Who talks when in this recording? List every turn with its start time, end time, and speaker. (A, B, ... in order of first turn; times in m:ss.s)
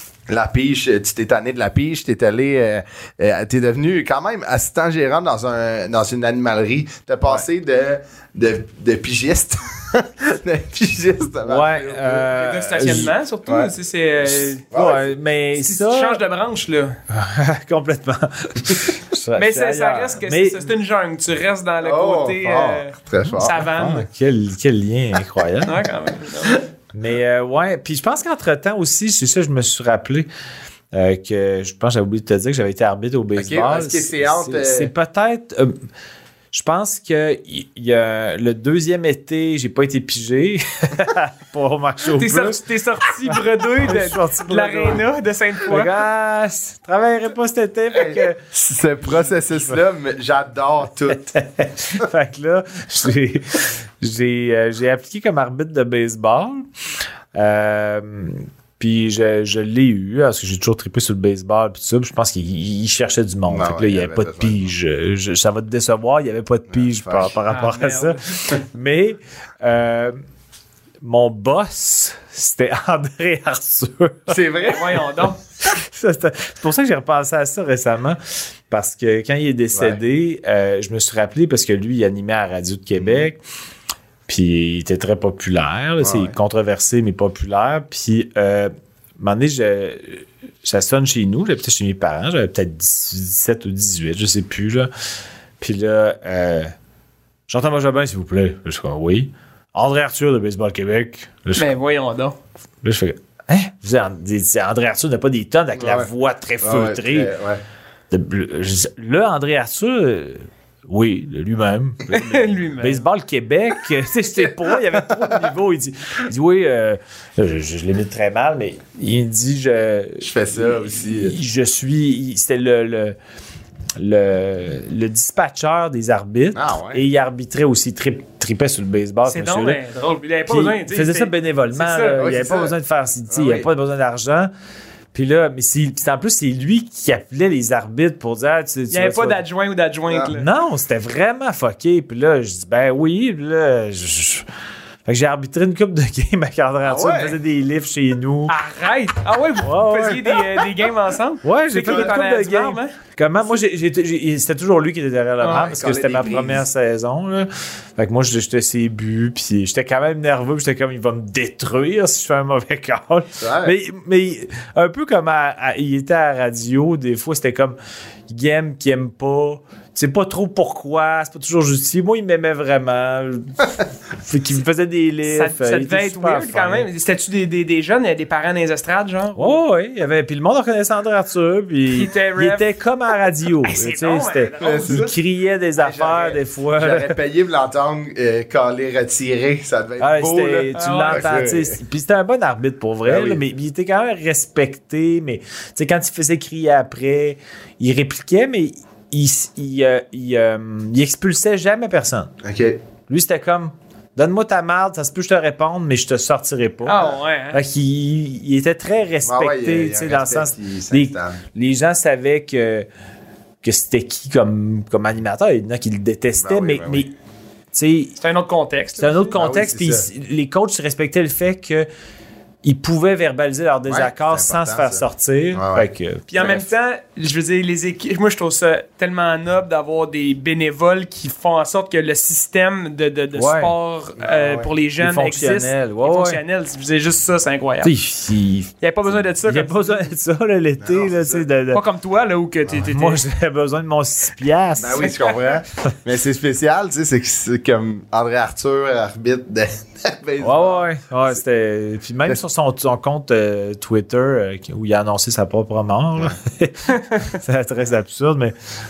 0:00.3-0:12.3 A
0:11.4-0:13.1 B
0:12.3-0:14.6 C
0:13.5-0:13.7 A
0:14.2-0:15.2 A
0:14.7-0:16.2 B
0:15.6-0:17.0 C
0:17.1-0:20.7 B
0:19.4-0:24.0 C
0:21.8-0:23.8 A
0:23.2-0:25.8 B
0:25.7-0:26.6 C
0:26.9-0:30.3 B
0:30.9-0:35.8 B
0:33.4-0:34.9 A
0:36.5-0:42.6 B
0:42.2-0:46.0 C
0:43.2-0:45.0 B
0:45.7-0:48.4 B
0:47.9-0:51.3 A
0:49.0-0:49.8 B
0:51.2-0:56.7 B
0:57.3-1:10.2 B
1:03.5-1:04.7 A
1:06.7-1:07.3 A
1:07.5-1:08.4 C
1:11.0-1:14.4 B
1:14.3-1:15.0 A
1:14.7-1:15.4 C
1:15.6-1:23.4 B
1:19.7-1:20.0 A
1:23.0-1:23.3 A
1:24.3-1:34.9 B
1:26.0-1:26.4 A
1:35.6-1:36.7 B
1:37.5-1:41.7 B
1:41.6-1:42.4 C
1:42.8-1:47.3 B
1:45.8-1:46.1 A
1:46.6-1:47.6 A
1:48.1-2:03.2 B
1:52.1-1:53.0 C
2:00.2-2:01.4 A
2:04.0-2:09.8 B
2:06.6-2:07.0 A
2:09.3-2:12.3 C
2:10.5-2:14.5 B
2:12.2-2:12.7 A
2:13.3-2:13.7 A
2:15.1-2:19.4 B
2:18.9-2:20.5 C
2:20.3-2:24.4 B
2:25.1-2:28.6 B
2:26.8-2:27.4 A
2:28.5-2:32.9 C
2:29.6-2:30.4 B
2:31.4-2:47.8 B
2:31.9-2:32.1 A
2:35.4-2:35.7 C
2:35.5-2:36.6 A
2:43.4-2:43.7 A
2:48.3-2:53.5 B
2:54.2-2:56.9 B
2:55.3-2:59.6 C
2:59.4-3:07.2 B
3:02.0-3:02.7 C
3:03.6-3:05.1 C
3:04.6-3:05.2 A
3:05.8-3:11.8 A
3:10.0-3:22.3 B
3:10.8-3:11.3 C
3:13.1-3:13.4 A
3:22.4-3:22.8 A
3:23.1-3:27.0 B
3:26.9-3:27.6 C
3:27.5-3:32.9 B
3:29.2-3:31.4 A
3:33.6-3:37.1 B
3:36.4-3:37.1 A
3:37.7-3:38.2 B
3:38.2-3:39.3 C
3:39.0-3:41.9 B
3:39.4-3:40.1 A
3:42.6-3:46.7 B
3:43.9-3:45.9 A
3:46.3-3:57.9 C
3:53.3-3:53.7 B
3:54.2-3:54.7 A
3:55.0-3:56.4 B
3:57.8-3:58.8 B
3:58.8-4:00.0 C
3:59.4-4:01.8 B
4:00.8-4:01.4 A
4:01.7-4:03.2 C
4:02.9-4:05.1 B
4:04.8-4:10.9 A
4:10.4-4:18.5 B